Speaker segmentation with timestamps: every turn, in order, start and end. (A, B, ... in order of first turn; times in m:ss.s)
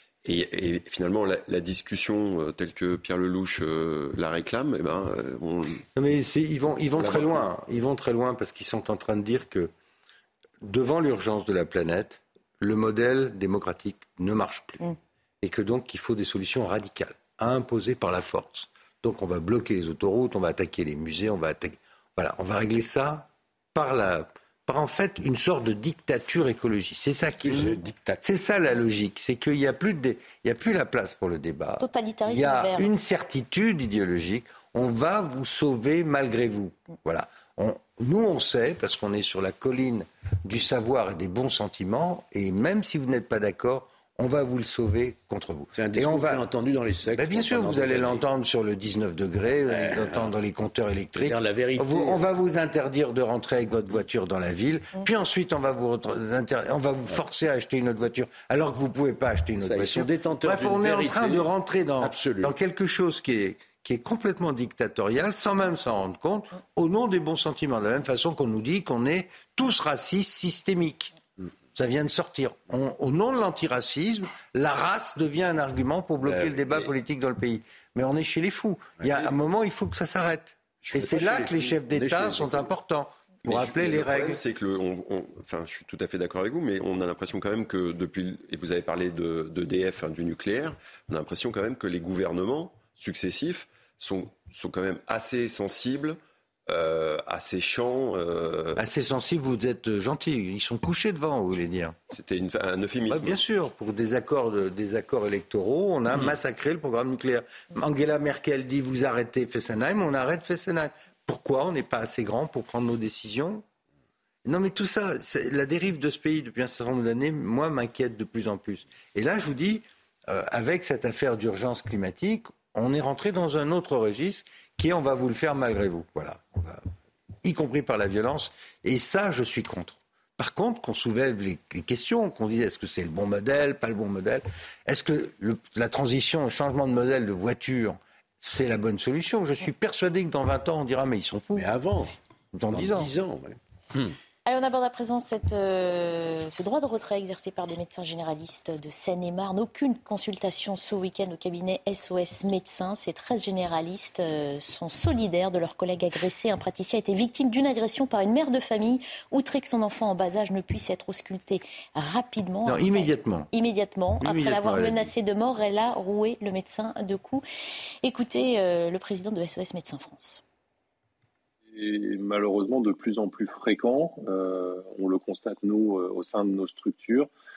0:00.2-0:05.8 A
0:05.9-0:09.7 B
0:07.0-0:07.4 A
0:10.6-0:14.9 B
0:15.4-0:46.4 B
0:27.4-0:28.2 C
0:31.8-0:32.9 D
0:45.7-0:48.2 C
0:47.1-1:11.1 B
0:49.7-0:50.3 C
0:51.2-0:52.2 C
0:59.6-1:01.5 C
1:02.0-1:02.5 C
1:11.7-1:24.4 B
1:16.2-1:16.6 C
1:20.9-1:22.7 C
1:23.4-1:38.8 A
1:38.8-1:42.0 B
1:42.1-1:43.4 A
1:43.1-1:53.6 B
1:54.4-2:06.8 B
2:07.4-2:21.7 B
2:21.5-2:22.1 C
2:22.5-2:23.1 B
2:22.7-2:24.2 C
2:24.4-2:47.4 D
2:42.6-2:43.5 B
2:44.2-2:45.1 B
2:48.0-2:50.4 D
2:51.7-2:57.3 E